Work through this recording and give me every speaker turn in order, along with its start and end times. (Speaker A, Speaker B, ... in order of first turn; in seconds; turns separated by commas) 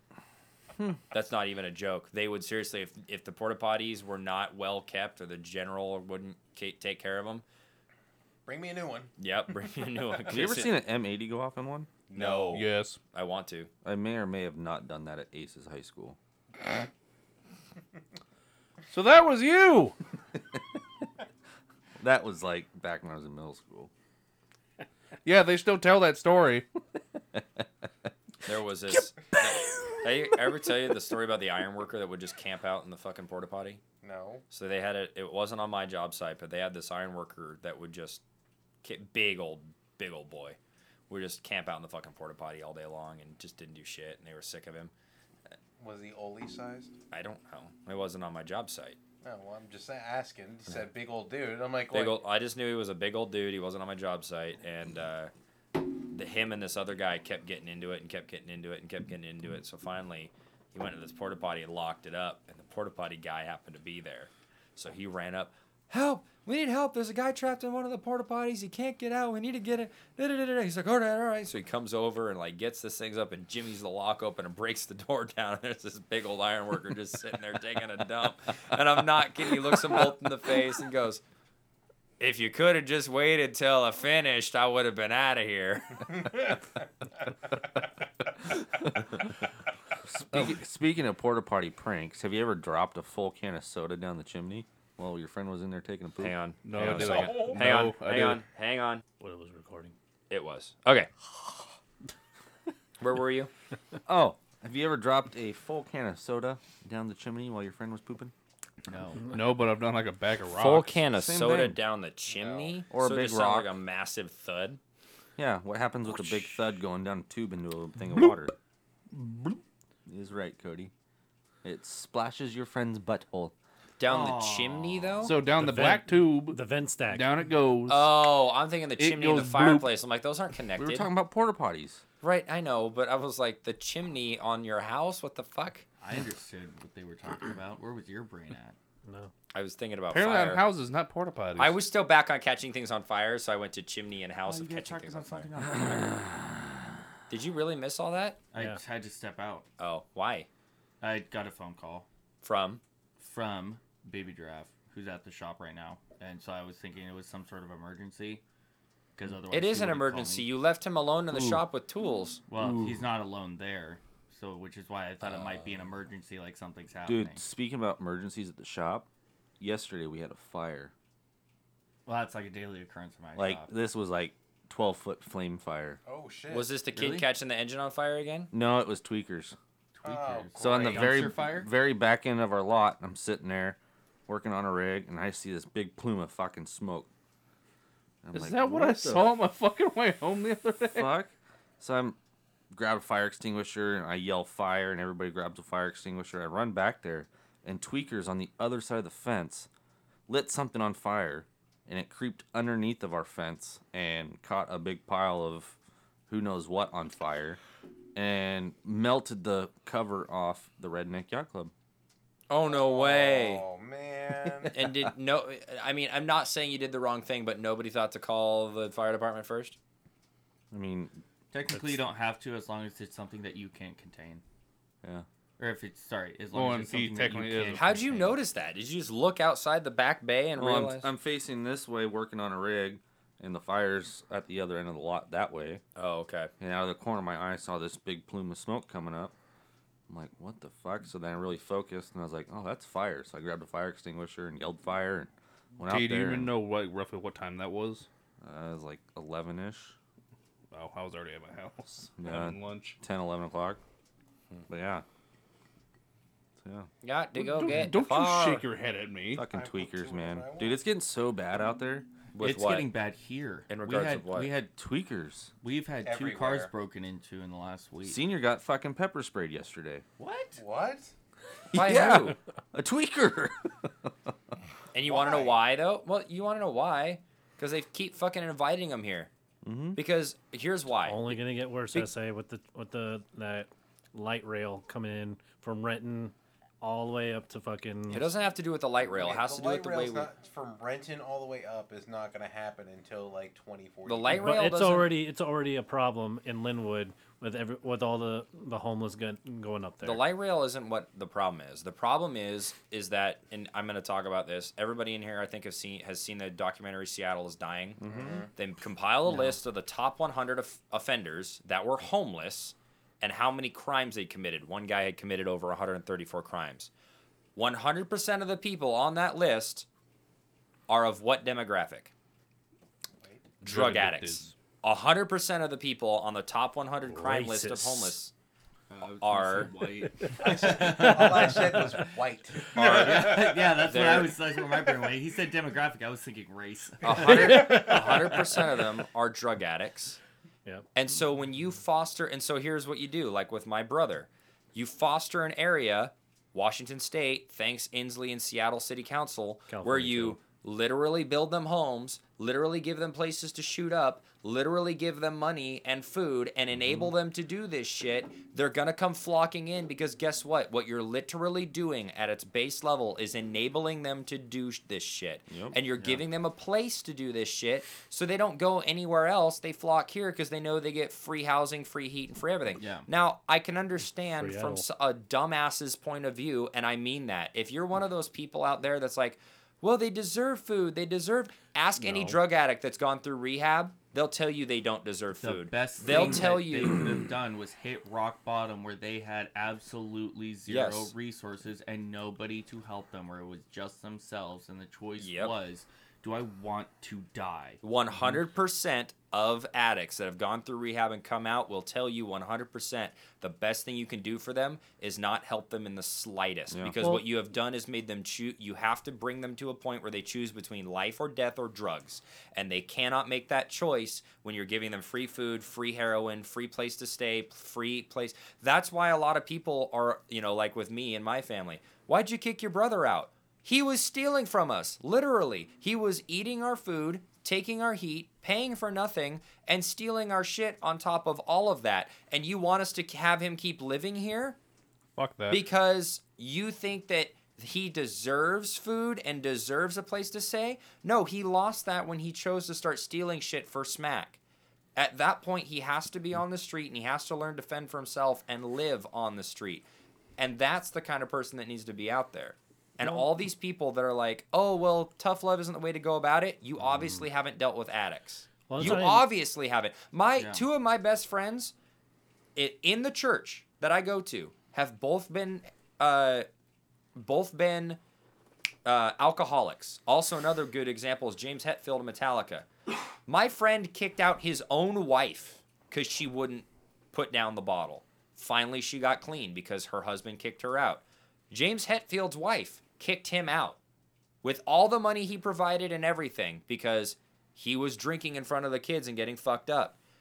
Speaker A: 1.1-7.4, Speaker B: 8.4-9.1, Speaker A: 9.2-10.7, Speaker C: 10.3-11.9, Speaker B: 12.1-12.7, Speaker A: 12.1-13.7, Speaker D: 12.3-13.0, Speaker C: 13.8-16.2, Speaker D: 18.9-19.9, Speaker C: 22.0-23.9, Speaker D: 25.2-26.6, Speaker A: 28.4-33.8, Speaker B: 34.0-34.4, Speaker A: 34.5-38.2, Speaker A: 38.8-40.6, Speaker A: 41.1-44.9, Speaker B: 45.8-46.9, Speaker A: 47.1-49.0, Speaker B: 49.2-52.2, Speaker A: 51.9-81.2, Speaker A: 82.2-86.5, Speaker C: 90.1-97.1, Speaker A: 96.2-99.0, Speaker D: 96.6-98.4, Speaker B: 97.0-97.9, Speaker E: 99.2-99.9, Speaker A: 100.3-101.1, Speaker A: 103.0-103.5, Speaker C: 104.1-108.3, Speaker F: 108.9-109.2, Speaker D: 109.3-111.0, Speaker A: 110.5-114.8, Speaker C: 111.1-111.8, Speaker B: 112.3-112.8, Speaker C: 112.9-113.7, Speaker C: 115.4-118.5, Speaker D: 119.1-119.6, Speaker C: 120.1-120.9, Speaker C: 121.6-123.5, Speaker A: 124.0-125.3, Speaker F: 124.0-125.3, Speaker D: 125.2-126.6, Speaker E: 125.5-127.3, Speaker D: 127.1-128.2, Speaker A: 127.9-131.1, Speaker D: 129.0-129.9, Speaker C: 130.8-132.0, Speaker A: 132.2-135.8, Speaker F: 136.0-138.8, Speaker E: 139.1-139.3, Speaker A: 139.5-140.6, Speaker D: 140.1-141.8, Speaker A: 141.6-145.5, Speaker F: 144.4-146.3, Speaker A: 147.3-148.4, Speaker F: 148.5-149.7, Speaker A: 149.8-150.5, Speaker F: 151.0-152.1, Speaker A: 152.4-152.8, Speaker F: 153.2-158.4, Speaker F: 159.2-160.5, Speaker A: 159.5-162.4, Speaker F: 162.5-167.4, Speaker D: 162.6-163.0, Speaker C: 167.1-169.1, Speaker C: 169.6-170.9, Speaker F: 172.1-173.7, Speaker C: 173.3-176.0, Speaker B: 176.0-176.7, Speaker A: 176.5-178.5, Speaker F: 176.9-177.3, Speaker C: 178.5-179.6, Speaker F: 179.9-181.7, Speaker B: 180.0-181.2, Speaker C: 180.6-187.1, Speaker C: 188.2-189.3, Speaker D: 188.3-191.2, Speaker C: 190.8-192.2, Speaker C: 192.7-199.7, Speaker C: 200.3-205.8, Speaker C: 206.3-207.6, Speaker C: 208.1-211.7, Speaker A: 212.5-213.6, Speaker B: 212.6-214.9, Speaker A: 214.7-219.8, Speaker C: 220.7-221.2, Speaker F: 221.5-224.4, Speaker F: 225.6-228.4, Speaker D: 226.5-227.8, Speaker A: 227.7-231.1, Speaker C: 230.6-235.8, Speaker A: 235.9-236.5, Speaker C: 236.6-239.3, Speaker C: 240.1-246.5, Speaker D: 245.8-248.1, Speaker C: 248.4-249.9, Speaker D: 250.7-253.0, Speaker C: 252.2-253.8, Speaker C: 254.7-255.0, Speaker C: 256.6-256.9, Speaker A: 257.0-258.6, Speaker D: 257.3-259.4, Speaker C: 259.4-262.1, Speaker B: 259.5-260.8, Speaker A: 262.3-262.9, Speaker F: 262.4-264.7, Speaker A: 263.7-264.5, Speaker C: 264.8-265.5, Speaker F: 265.6-268.2, Speaker B: 266.0-266.7, Speaker C: 268.0-270.0, Speaker F: 270.2-270.6, Speaker B: 270.6-271.1, Speaker C: 271.7-274.1, Speaker A: 271.7-272.4, Speaker A: 274.9-279.3, Speaker B: 275.1-275.6, Speaker C: 279.6-280.0, Speaker A: 279.9-281.3, Speaker E: 281.0-288.3, Speaker A: 288.1-290.3, Speaker B: 289.1-294.5, Speaker A: 294.0-295.1, Speaker E: 294.3-300.2, Speaker A: 300.0-308.0, Speaker C: 308.0-308.4, Speaker B: 308.0-308.5, Speaker A: 308.5-316.9, Speaker E: 309.3-309.6, Speaker A: 317.6-319.9, Speaker A: 320.9-322.1, Speaker B: 323.2-323.5, Speaker A: 323.6-328.3, Speaker D: 323.6-324.5, Speaker E: 327.1-328.1, Speaker F: 328.9-338.6, Speaker A: 329.2-329.7, Speaker B: 330.4-333.9, Speaker A: 332.8-334.4, Speaker A: 337.0-340.2, Speaker E: 337.2-338.3, Speaker A: 340.9-387.1, Speaker E: 349.7-350.4, Speaker C: 365.5-365.8, Speaker F: 366.0-366.2, Speaker F: 372.8-373.1, Speaker E: 374.4-374.8, Speaker E: 382.0-382.4, Speaker F: 385.4-397.8, Speaker A: 390.7-391.1, Speaker A: 395.2-395.5, Speaker A: 397.8-434.6, Speaker E: 407.0-407.2, Speaker D: 435.2-435.6, Speaker A: 435.5-444.4, Speaker A: 444.9-449.8, Speaker A: 450.4-461.7, Speaker E: 458.7-459.3, Speaker F: 460.4-460.7, Speaker A: 462.6-466.5, Speaker A: 467.1-468.0, Speaker A: 468.8-472.7, Speaker A: 473.2-483.8, Speaker A: 484.4-489.9